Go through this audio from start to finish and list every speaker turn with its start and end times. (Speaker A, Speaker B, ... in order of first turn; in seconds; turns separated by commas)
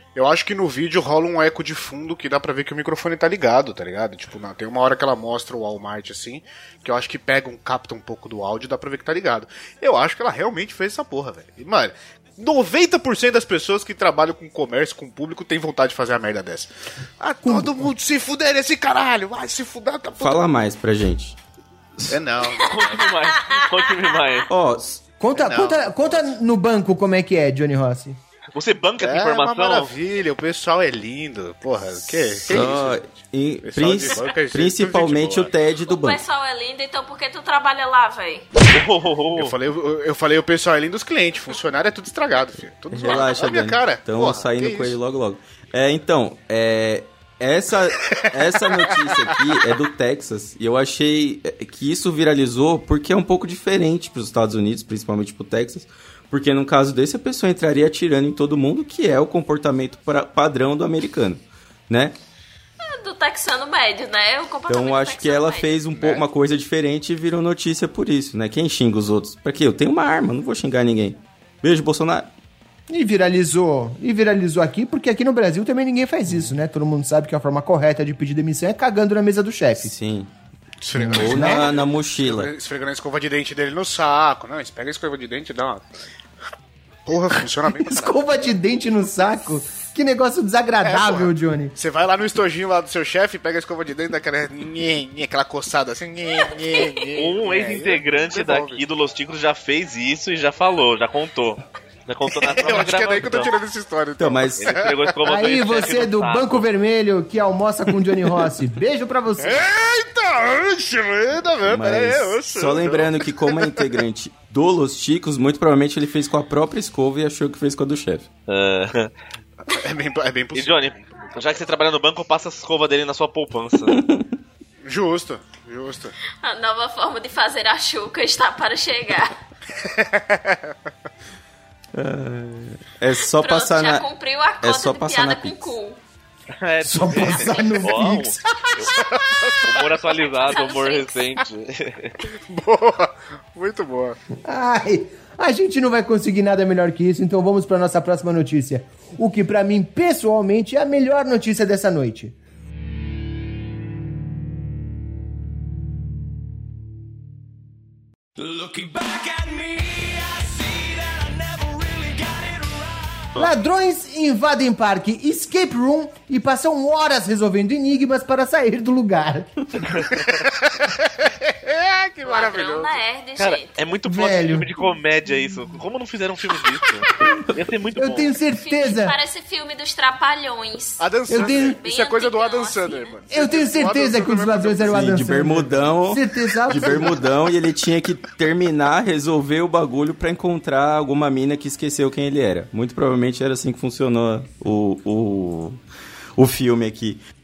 Speaker A: 0.1-20.5, Speaker B: 17.4-17.9, Speaker C: 20.2-21.4, Speaker A: 22.1-23.1, Speaker D: 22.6-24.5, Speaker E: 23.4-24.4, Speaker C: 24.5-25.0, Speaker B: 25.2-28.2, Speaker A: 25.4-26.3, Speaker D: 28.6-29.9, Speaker A: 29.0-35.5, Speaker C: 32.1-36.2, Speaker E: 35.9-38.5, Speaker D: 38.7-39.5, Speaker A: 39.4-45.0, Speaker C: 42.9-62.1, Speaker E: 62.8-65.8, Speaker C: 64.7-72.3, Speaker A: 65.9-66.2, Speaker B: 72.9-79.9, Speaker C: 79.8-80.3, Speaker A: 80.8-85.9, Speaker B: 81.0-81.7, Speaker C: 81.0-82.5, Speaker A: 87.1-88.2, Speaker B: 87.8-91.8, Speaker A: 90.8-98.8, Speaker E: 96.7-97.0, Speaker D: 97.2-103.5, Speaker A: 102.4-105.2, Speaker C: 104.2-104.8, Speaker D: 104.6-106.6, Speaker B: 105.2-109.6, Speaker A: 109.4-113.6, Speaker C: 111.6-118.3, Speaker D: 118.5-119.1, Speaker A: 119.7-121.7, Speaker D: 120.5-124.0, Speaker C: 123.9-124.4, Speaker A: 124.8-126.2, Speaker E: 126.4-129.3, Speaker A: 129.8-130.7, Speaker C: 131.9-134.1, Speaker E: 133.4-136.0, Speaker C: 134.6-135.7, Speaker D: 136.6-138.9, Speaker B: 136.8-138.9, Speaker A: 138.9-140.1, Speaker D: 139.6-142.2, Speaker E: 140.4-141.2, Speaker A: 142.3-144.2, Speaker B: 144.4-152.3, Speaker C: 158.5-159.5, Speaker C: 161.5-162.4, Speaker B: 163.4-169.5, Speaker A: 170.2-170.5, Speaker A: 171.1-173.0, Speaker E: 172.2-173.8, Speaker D: 173.4-178.3, Speaker B: 174.1-174.7, Speaker B: 178.0-179.2, Speaker E: 178.6-183.2, Speaker A: 181.0-185.1, Speaker B: 181.3-181.8, Speaker B: 183.3-187.2, Speaker C: 184.9-195.8, Speaker C: 196.4-197.2